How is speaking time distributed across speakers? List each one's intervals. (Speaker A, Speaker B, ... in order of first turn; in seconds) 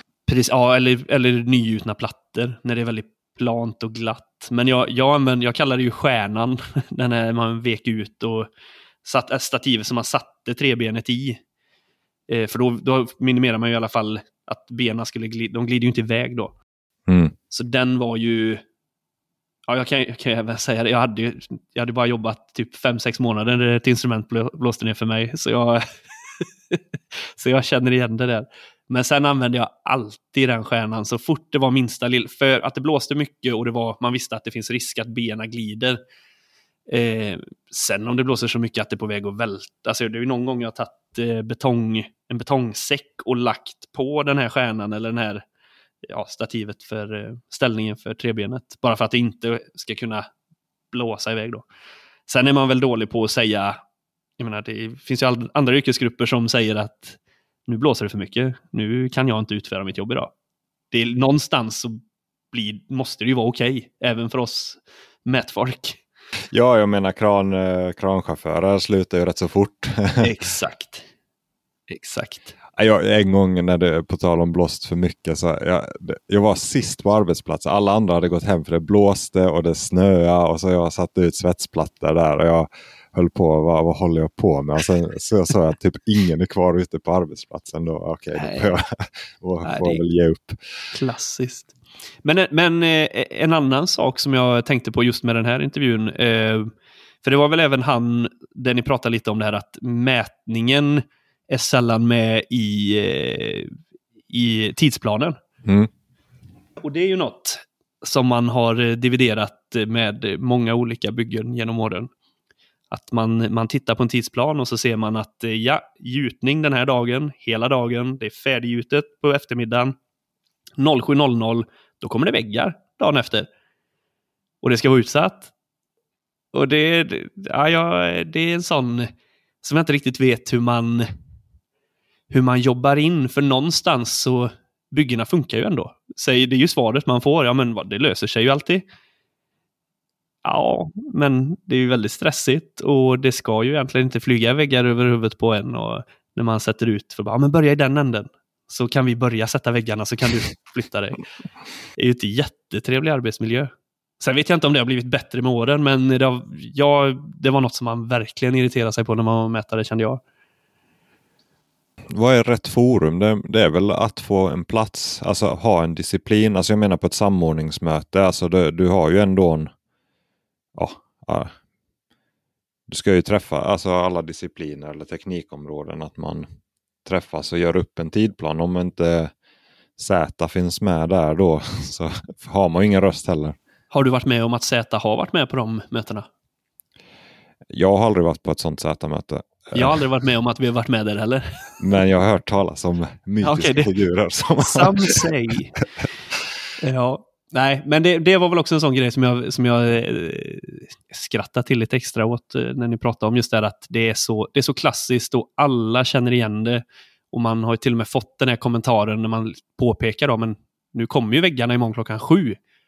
Speaker A: 0.3-8.5, 9.0-11.4, 12.3-16.5, 17.5-18.6, 19.7-25.9, 26.4-36.0, 36.9-45.4, 46.1-50.3, 50.9-51.6, 52.3-53.8, 54.4-60.3, 60.9-62.0, 62.5-66.0, 70.2-71.1, 71.9-72.6, 88.4-88.7, 89.6-90.0, 90.9-91.7, 92.2-96.7, 97.2-103.7, 104.3-105.4, 106.8-112.1, 112.9-120.0, 120.8-123.5, 124.6-125.5, 126.5-129.1, 129.6-131.1, 132.3-138.8, 140.4-151.2, 152.0-160.2, 183.9-186.3, 189.8-191.7, 193.4-193.9, 194.6-195.8, 196.8-212.6
Speaker B: 17.1-17.3, 66.5-70.3, 72.8-90.6, 105.7-105.9, 162.1-169.7, 170.8-171.5, 172.9-176.5, 177.1-179.3, 180.0-183.6, 187.7-190.0, 191.8-195.2